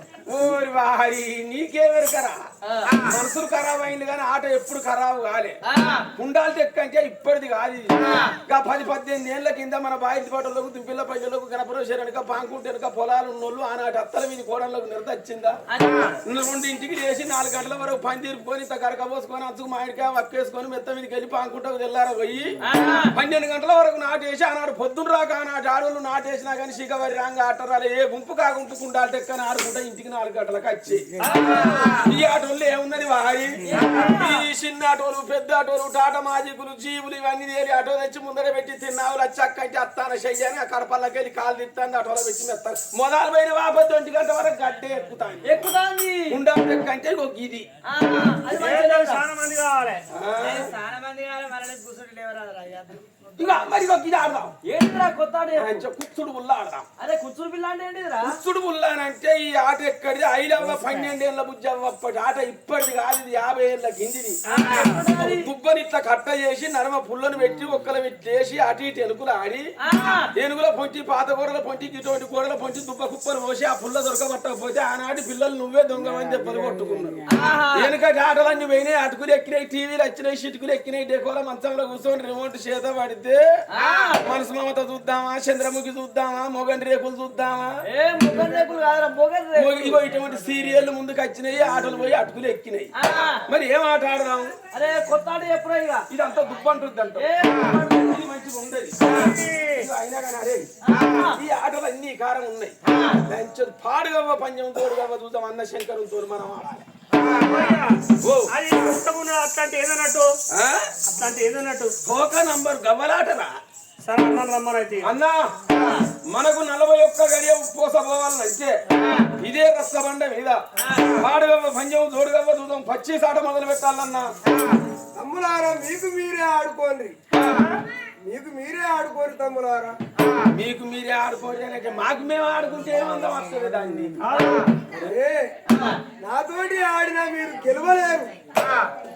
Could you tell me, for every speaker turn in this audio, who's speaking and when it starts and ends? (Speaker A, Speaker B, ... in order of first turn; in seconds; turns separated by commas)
Speaker A: 0.2-2.5, Speaker B: 2.7-3.0, Speaker A: 3.0-5.6, Speaker B: 5.7-6.1, Speaker A: 6.1-15.6, Speaker B: 15.7-16.2, Speaker A: 16.2-31.1, Speaker B: 22.6-23.1, Speaker C: 31.2-31.9, Speaker B: 31.3-31.8, Speaker A: 31.9-45.5, Speaker B: 33.6-34.4, Speaker B: 45.4-46.4, Speaker A: 46.3-47.7, Speaker B: 47.9-49.2, Speaker C: 48.5-50.0, Speaker A: 50.1-50.7, Speaker D: 50.4-53.3, Speaker A: 53.4-54.5, Speaker B: 54.6-55.8, Speaker A: 55.5-56.9, Speaker B: 57.0-58.3, Speaker A: 58.2-64.4, Speaker B: 64.5-65.5, Speaker C: 64.5-65.0, Speaker A: 65.0-69.7, Speaker B: 69.8-70.3, Speaker A: 70.2-83.4, Speaker B: 77.3-77.9, Speaker B: 83.7-84.2, Speaker A: 84.1-87.8, Speaker B: 87.8-90.0, Speaker A: 89.5-92.9, Speaker B: 93.0-93.4, Speaker A: 93.5-94.5, Speaker B: 94.7-96.0, Speaker A: 96.1-100.7, Speaker B: 97.2-98.0, Speaker C: 99.3-99.9, Speaker B: 100.8-101.4, Speaker A: 101.3-106.9, Speaker B: 102.9-103.2, Speaker C: 107.2-108.0, Speaker A: 108.2-108.5, Speaker C: 108.5-110.3, Speaker A: 110.5-111.0, Speaker C: 111.0-111.9, Speaker A: 112.0-113.5, Speaker C: 114.0-115.1, Speaker A: 115.0-115.5, Speaker B: 115.7-116.0, Speaker A: 116.2-118.8, Speaker A: 119.3-120.6, Speaker A: 121.1-124.3, Speaker E: 125.2-127.2, Speaker A: 127.3-127.8, Speaker E: 128.2-130.0, Speaker A: 130.3-135.1, Speaker C: 134.2-134.6, Speaker E: 135.0-135.5, Speaker E: 136.2-138.3